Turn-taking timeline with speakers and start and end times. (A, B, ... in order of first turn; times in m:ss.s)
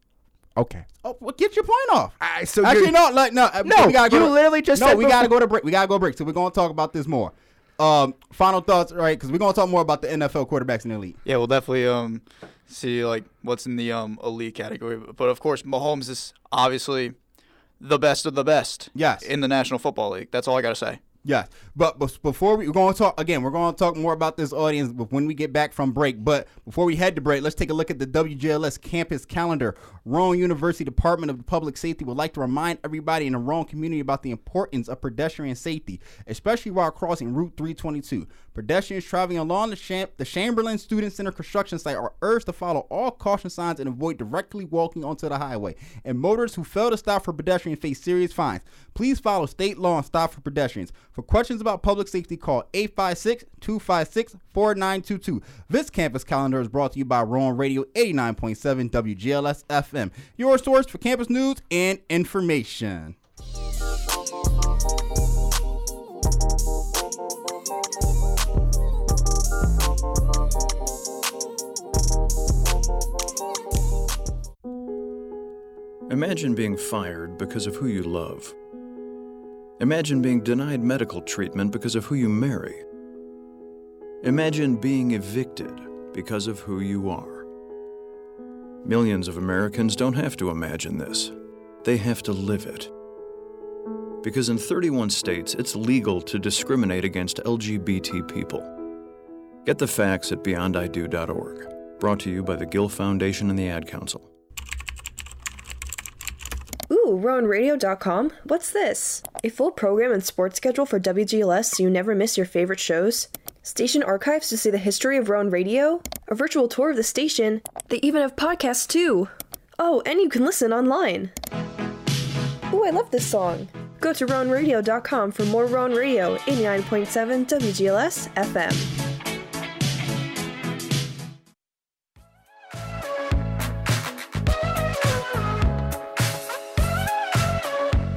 0:00.6-0:00.9 A
0:01.0-0:11.2 B
0:02.2-0:03.0 A
0:03.6-0:05.3 A
0:11.2-0:17.2 C
0:17.8-0:21.0 C
0:18.9-0:19.3 B
0:21.2-1:03.1 B
1:16.1-1:18.6 D
1:19.8-1:22.8 D
1:24.2-1:27.5 D
1:28.8-1:32.9 D
1:34.2-1:38.8 D
1:39.6-1:44.3 D
1:46.9-2:01.3 E
2:02.7-2:08.9 E